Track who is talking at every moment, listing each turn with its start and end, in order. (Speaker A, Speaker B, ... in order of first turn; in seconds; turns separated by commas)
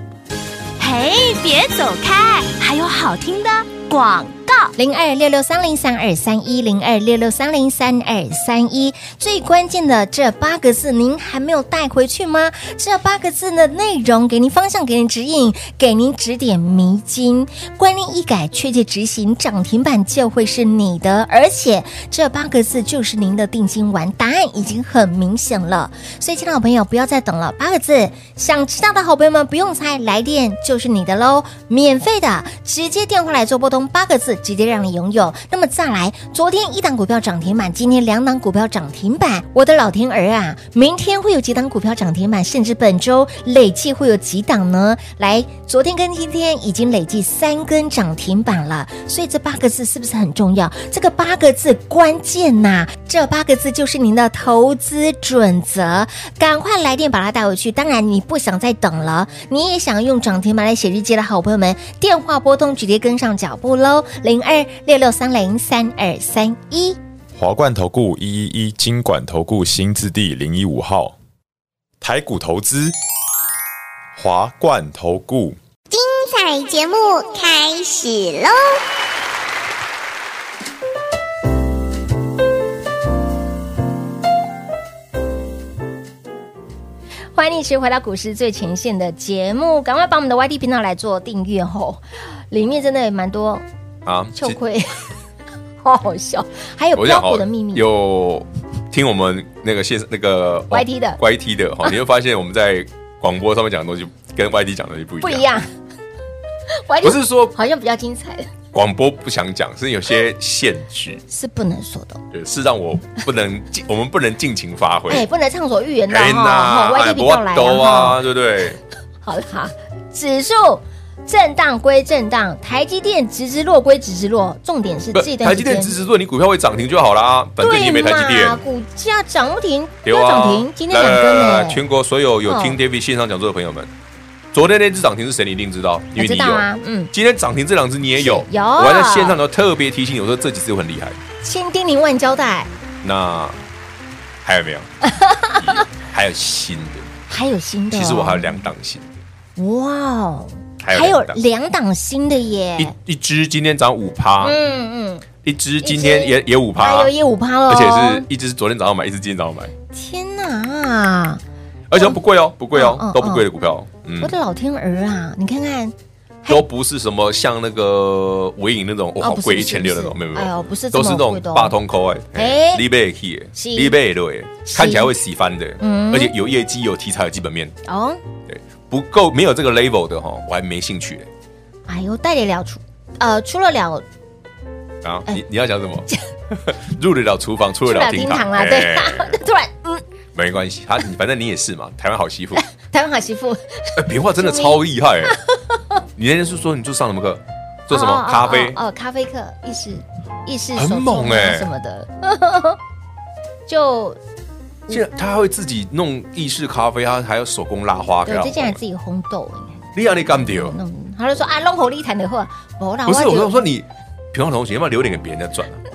Speaker A: 0.8-4.7, Speaker B: 4.8-67.0, Speaker C: 67.4-71.2, Speaker C: 72.0-72.9, Speaker C: 74.2-75.6, Speaker D: 75.9-78.8, Speaker B: 87.3-93.6, Speaker E: 94.0-94.6, Speaker B: 94.3-95.0, Speaker B: 95.8-97.9, Speaker E: 97.0-105.5, Speaker B: 100.7-101.2, Speaker B: 105.2-105.7, Speaker B: 106.7-108.5, Speaker E: 107.0-107.5, Speaker E: 108.7-111.2, Speaker B: 111.3-112.2, Speaker E: 112.3-115.3, Speaker B: 115.1-118.2, Speaker E: 116.1-118.8, Speaker B: 119.2-126.0, Speaker E: 125.1-128.6, Speaker B: 127.6-131.8, Speaker E: 130.0-133.9, Speaker B: 132.5-132.8, Speaker E: 134.5-141.2, Speaker B: 136.2-137.1, Speaker B: 138.2-139.4, Speaker B: 141.4-142.7, Speaker E: 143.0-143.6, Speaker E: 144.4-144.9, Speaker B: 145.1-145.8, Speaker E: 145.5-147.1, Speaker B: 147.3-148.6, Speaker E: 147.9-149.1, Speaker B: 149.6-152.9, Speaker E: 150.8-151.4, Speaker E: 152.8-154.6, Speaker B: 154.4-155.3, Speaker E: 155.4-157.1, Speaker B: 155.8-158.3, Speaker E: 157.7-159.7, Speaker B: 159.9-161.4, Speaker E: 161.9-164.3, Speaker B: 162.7-163.5, Speaker B: 164.2-166.7, Speaker E: 166.5-177.8, Speaker B: 169.2-171.8, Speaker B: 172.3-172.9, Speaker B: 173.5-174.0, Speaker B: 174.7-175.1, Speaker B: 175.8-176.3, Speaker B: 177.9-178.2, Speaker E: 178.5-181.3, Speaker B: 181.9-184.1, Speaker E: 185.0-189.4, Speaker B: 187.8-190.0, Speaker E: 190.3-192.6, Speaker B: 192.6-195.5, Speaker E: 194.0-195.4, Speaker E: 196.2-198.8, Speaker B: 197.9-202.8, Speaker E: 200.8-201.7, Speaker B: 203.7-204.2, Speaker E: 204.9-208.8, Speaker B: 208.2-213.7, Speaker E: 209.9-210.8, Speaker E: 213.1-215.8